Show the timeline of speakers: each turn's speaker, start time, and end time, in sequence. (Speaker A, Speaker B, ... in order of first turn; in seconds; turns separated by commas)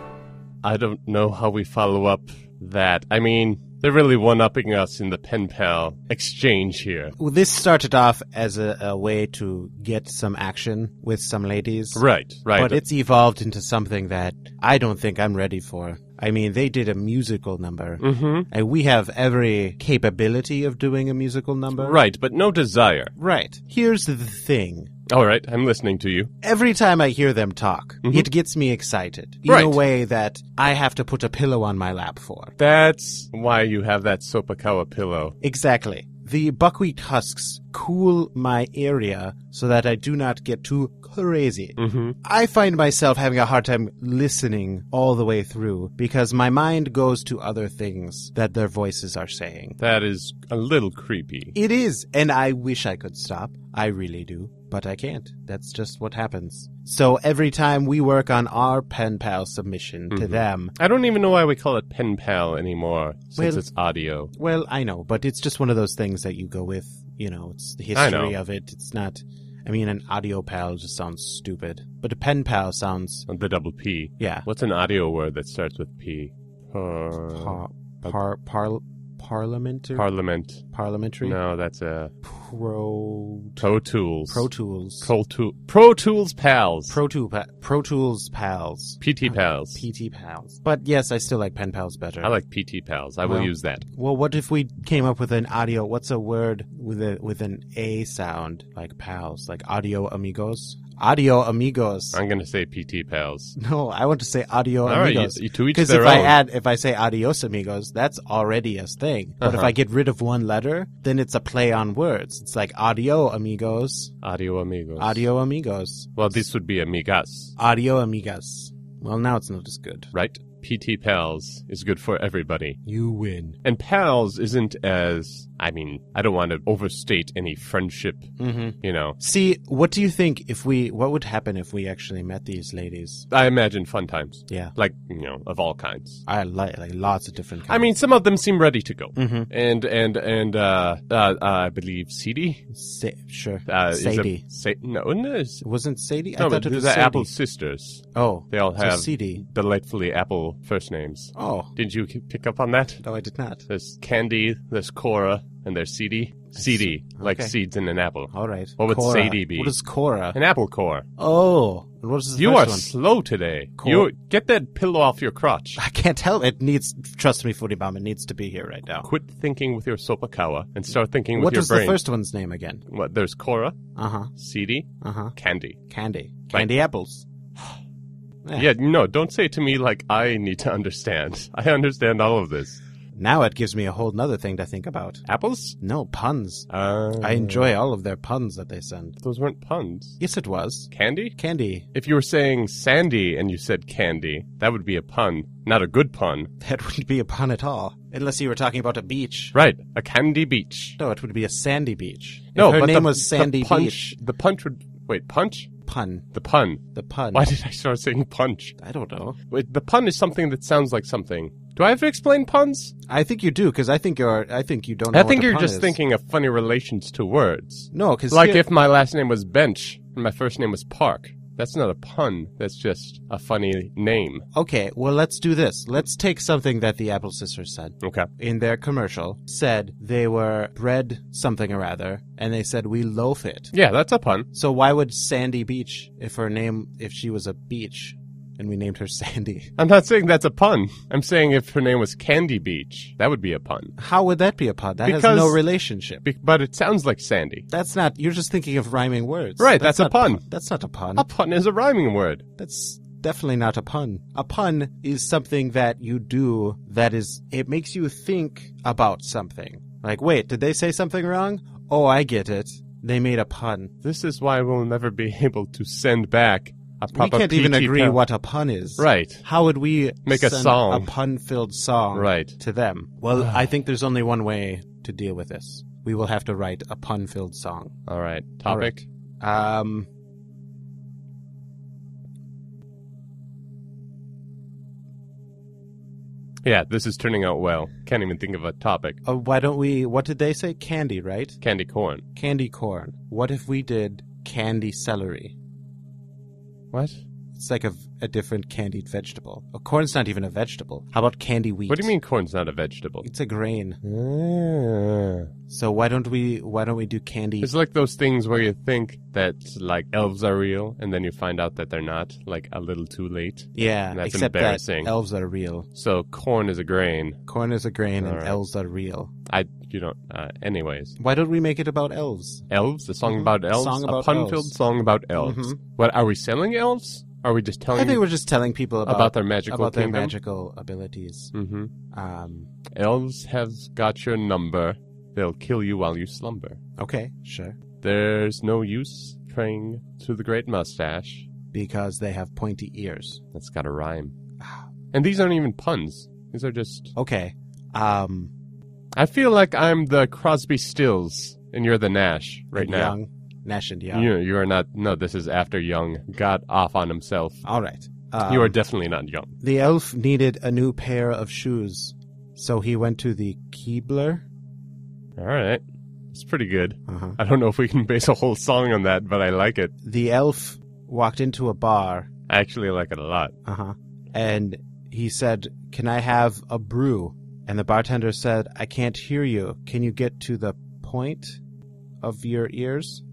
Speaker A: 0.6-7.1, Speaker B: 7.2-22.0, Speaker A: 11.9-12.8, Speaker A: 18.0-18.5, Speaker A: 21.8-23.1, Speaker B: 23.1-24.9, Speaker A: 25.1-26.3, Speaker B: 26.4-32.5, Speaker A: 28.0-28.3, Speaker A: 29.4-29.8, Speaker A: 32.6-35.4, Speaker B: 35.4-49.8, Speaker A: 41.8-42.1, Speaker A: 49.8-51.5, Speaker B: 51.5-60.7, Speaker A: 60.1-64.3, Speaker B: 63.4-63.7, Speaker B: 64.3-73.3, Speaker A: 67.9-68.4, Speaker A: 73.2-78.2, Speaker B: 74.2-74.5, Speaker B: 77.3-80.1, Speaker A: 79.9-80.6, Speaker B: 80.7-81.4, Speaker A: 81.2-82.1, Speaker B: 82.2-83.7, Speaker A: 83.6-84.5, Speaker B: 84.3-85.1, Speaker A: 85.0-87.0, Speaker B: 86.9-92.4, Speaker A: 89.0-89.8, Speaker A: 92.2-93.8, Speaker B: 93.2-102.2, Speaker A: 102.1-103.5, Speaker B: 103.5-114.1, Speaker A: 104.8-106.3, Speaker A: 109.4-109.7, Speaker A: 114.2-115.3, Speaker B: 115.0-116.4, Speaker A: 116.1-117.5, Speaker B: 117.6-120.1, Speaker A: 120.1-122.8, Speaker B: 122.8-123.6, Speaker A: 123.6-129.2, Speaker B: 128.4-133.3, Speaker A: 133.3-136.2, Speaker B: 134.5-134.8, Speaker B: 136.2-137.9, Speaker A: 137.7-142.6, Speaker B: 139.1-139.5, Speaker B: 142.7-144.4, Speaker A: 143.7-145.6, Speaker B: 145.6-147.3, Speaker A: 146.4-153.0, Speaker B: 148.1-149.4, Speaker B: 151.3-151.7, Speaker B: 153.0-153.7, Speaker A: 153.7-159.7, Speaker B: 156.6-157.5, Speaker B: 158.3-160.4, Speaker A: 160.3-161.1, Speaker B: 161.2-162.9, Speaker A: 162.3-165.8, Speaker B: 163.8-164.1, Speaker B: 165.8-169.1, Speaker A: 169.0-172.0, Speaker B: 171.3-172.8, Speaker A: 172.9-173.8, Speaker B: 173.9-174.3, Speaker A: 174.3-175.8, Speaker B: 175.0-175.3, Speaker B: 175.9-177.2, Speaker B: 178.4-178.7, Speaker A: 178.5-182.8, Speaker B: 183.1-185.2, Speaker A: 185.2-185.8, Speaker B: 185.8-189.2, Speaker A: 186.7-187.7, Speaker A: 189.2-190.2, Speaker B: 190.2-191.8, Speaker A: 190.9-191.4, Speaker A: 191.9-196.5, Speaker B: 196.6-199.6, Speaker A: 199.5-201.0, Speaker B: 201.0-204.1, Speaker A: 202.5-205.7, Speaker B: 205.8-206.2, Speaker A: 206.3-206.8, Speaker B: 206.9-207.5, Speaker A: 207.3-208.8, Speaker B: 208.8-209.4, Speaker A: 209.5-212.9, Speaker B: 213.1-216.0, Speaker A: 215.1-224.4, Speaker B: 217.9-218.7, Speaker B: 224.5-233.7, Speaker A: 228.0-228.3, Speaker A: 233.7-234.5, Speaker B: 234.5-239.7, Speaker A: 239.8-243.9, Speaker B: 244.0-246.2, Speaker A: 245.0-245.6, Speaker A: 246.2-247.7, Speaker B: 247.7-251.3, Speaker A: 249.6-250.4, Speaker A: 251.1-252.4, Speaker B: 252.6-263.9, Speaker A: 264.0-268.2, Speaker B: 267.1-278.0, Speaker A: 269.0-269.4, Speaker A: 270.2-271.1, Speaker A: 272.1-272.6, Speaker A: 278.1-279.0, Speaker B: 278.6-280.1, Speaker A: 286.6-289.2, Speaker B: 289.2-291.6, Speaker A: 291.6-292.2, Speaker B: 292.4-295.6, Speaker A: 296.9-297.2, Speaker B: 297.5-302.1, Speaker A: 301.9-303.3, Speaker B: 303.2-304.0, Speaker A: 304.0-305.5, Speaker B: 305.7-307.7, Speaker A: 307.6-315.1, Speaker B: 313.7-315.9, Speaker A: 315.9-317.4, Speaker B: 317.5-319.3, Speaker A: 318.2-318.6, Speaker A: 319.5-321.1, Speaker B: 321.2-322.7, Speaker A: 322.7-328.2, Speaker B: 323.2-324.7, Speaker B: 325.3-325.8, Speaker B: 327.9-331.5, Speaker A: 329.0-330.3, Speaker A: 331.5-331.9, Speaker B: 332.1-332.7, Speaker A: 332.9-336.8, Speaker B: 337.0-337.8, Speaker A: 338.0-341.5, Speaker B: 341.7-343.4, Speaker A: 343.5-344.3, Speaker B: 344.6-344.9, Speaker A: 345.1-347.1, Speaker B: 347.1-348.5, Speaker A: 349.1-353.1, Speaker B: 352.7-354.3, Speaker A: 354.1-357.6, Speaker B: 357.6-358.8, Speaker A: 358.4-359.5, Speaker B: 359.6-364.4, Speaker A: 365.4-369.9, Speaker B: 367.1-367.4, Speaker B: 370.0-372.3, Speaker A: 372.5-373.5, Speaker B: 373.6-381.6, Speaker B: 382.2-383.2